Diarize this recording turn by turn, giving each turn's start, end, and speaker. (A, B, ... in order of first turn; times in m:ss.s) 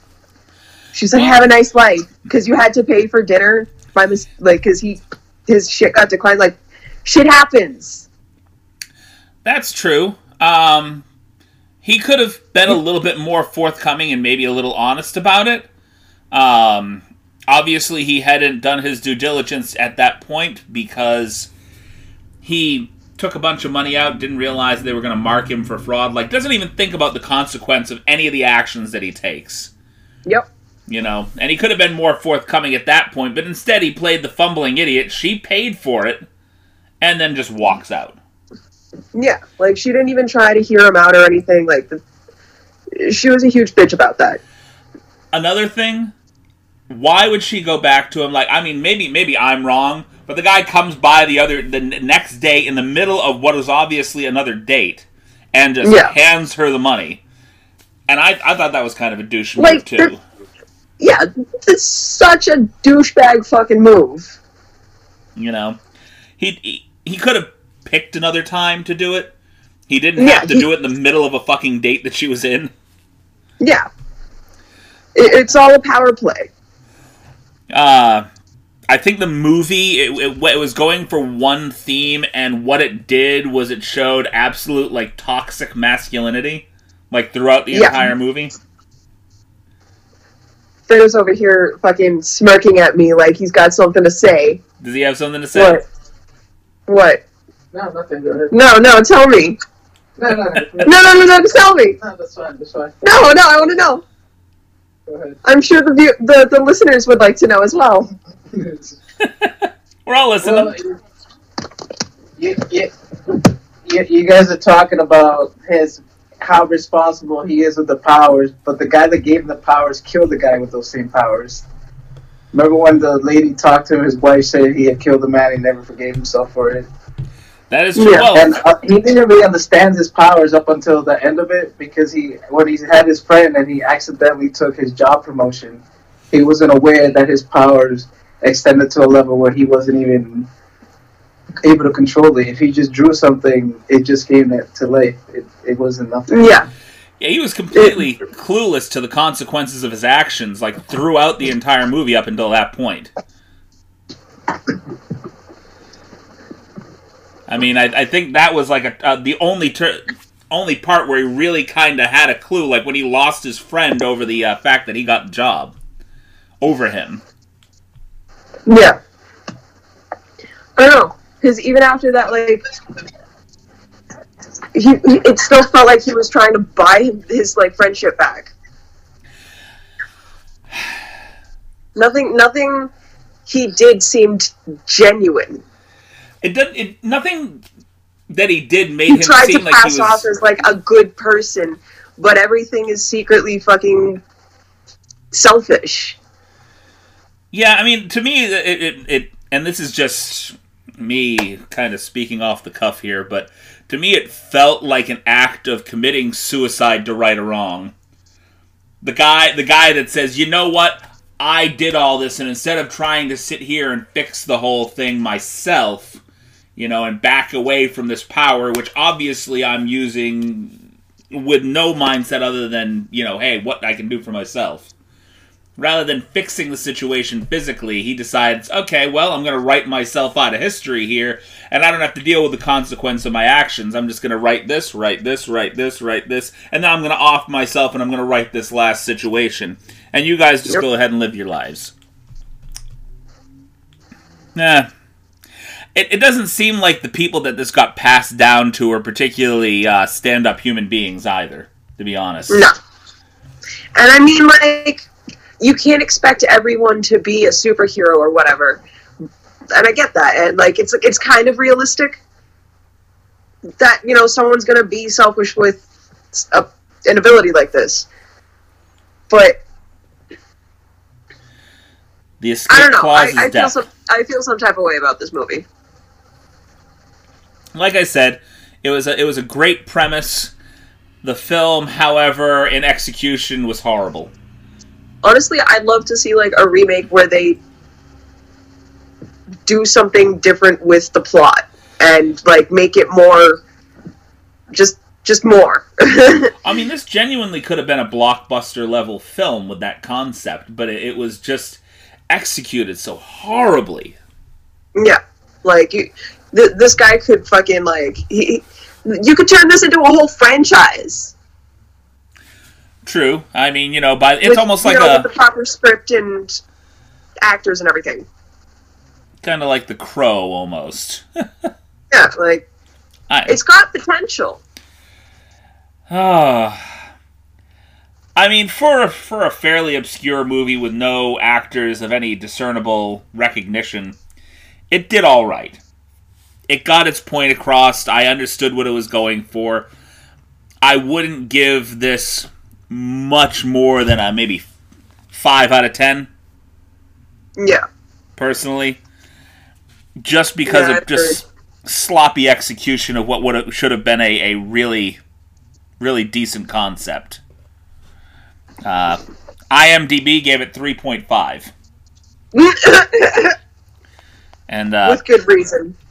0:00.9-0:08.1 A
0:01.1-0:01.4 B
0:09.4-0:11.0 B
0:11.8-0:15.7 B
0:16.3-0:21.5 B
0:22.4-0:29.7 B
0:30.9-0:36.2 B
0:37.0-0:38.2 B
0:39.1-0:42.0 A
0:42.9-0:44.4 A
0:45.3-0:46.1 B
0:46.9-0:57.2 B
0:55.8-0:56.1 A
0:58.1-1:00.2 B
0:59.6-1:00.1 A
1:01.0-1:04.4 A
1:05.4-1:05.8 B
1:06.4-1:09.3 B
1:09.9-1:12.7 B
1:10.2-1:10.6 A
1:13.6-1:13.8 A
1:15.1-1:16.5 A
1:17.7-1:18.3 B
1:18.9-1:28.5 B
1:27.7-1:28.0 A
1:30.9-1:34.6 A
1:34.8-1:35.8 B
1:35.5-1:35.8 A
1:36.9-1:37.2 A
1:37.7-1:38.5 C
1:38.5-1:39.6 A
1:40.2-1:41.0 C
1:40.8-1:42.0 A
1:42.0-1:42.9 C
1:43.0-1:44.0 A
1:45.1-1:45.4 C
1:45.4-1:48.1 A
1:48.5-1:49.0 C
1:50.0-1:50.8 B
1:50.4-1:50.8 C
1:52.4-2:01.6 C
2:02.5-2:06.9 C
2:07.7-2:08.5 B
2:08.0-2:08.2 A
2:08.2-2:20.5 C
2:21.6-2:26.5 C
2:26.3-2:26.7 A
2:27.2-2:33.1 B
2:37.5-2:45.7 B
2:46.6-2:47.2 B
2:48.7-2:49.0 A
2:50.8-2:52.6 A
2:54.7-2:58.5 A
3:01.9-3:02.9 A
3:03.5-3:05.6 A
3:06.4-3:07.6 B
3:08.3-3:10.2 B
3:09.1-3:14.2 A
3:15.3-3:16.2 A
3:17.5-3:27.9 B
3:29.0-3:36.2 B
3:36.8-3:40.8 B
3:41.3-3:44.9 B
3:45.8-4:01.9 B
4:04.5-4:04.9 B
4:05.9-4:12.7 B
4:13.9-4:15.0 A
4:15.6-4:18.8 A
4:19.7-4:22.2 A
4:23.8-4:25.8 A
4:26.3-4:28.1 A
4:29.3-4:29.6 A
4:32.4-4:33.7 B
4:32.7-4:35.6 A
4:37.7-4:40.5 B
4:41.2-4:44.3 B
4:45.2-4:47.6 A
4:49.6-4:53.6 A
4:54.7-4:56.5 A
4:56.6-5:04.2 B
5:05.0-5:11.3 A
5:13.0-5:15.3 B
5:14.4-5:16.6 A
5:17.4-5:18.2 A
5:19.4-5:21.7 B
5:22.1-5:22.6 A
5:23.3-5:23.6 B
5:23.5-5:24.6 A
5:26.1-5:26.8 B
5:28.3-5:34.2 B
5:34.9-5:35.8 B
5:36.7-5:39.9 B
5:40.8-5:44.6 B
5:45.3-5:46.3 B
5:47.6-5:47.8 A
5:48.4-5:49.0 B
5:50.2-5:55.2 B
5:50.6-5:51.4 A
5:56.0-5:57.4 B
5:58.8-5:59.2 B
5:59.7-6:01.7 B
6:02.5-6:03.6 A
6:04.7-6:05.2 B
6:05.0-6:05.9 A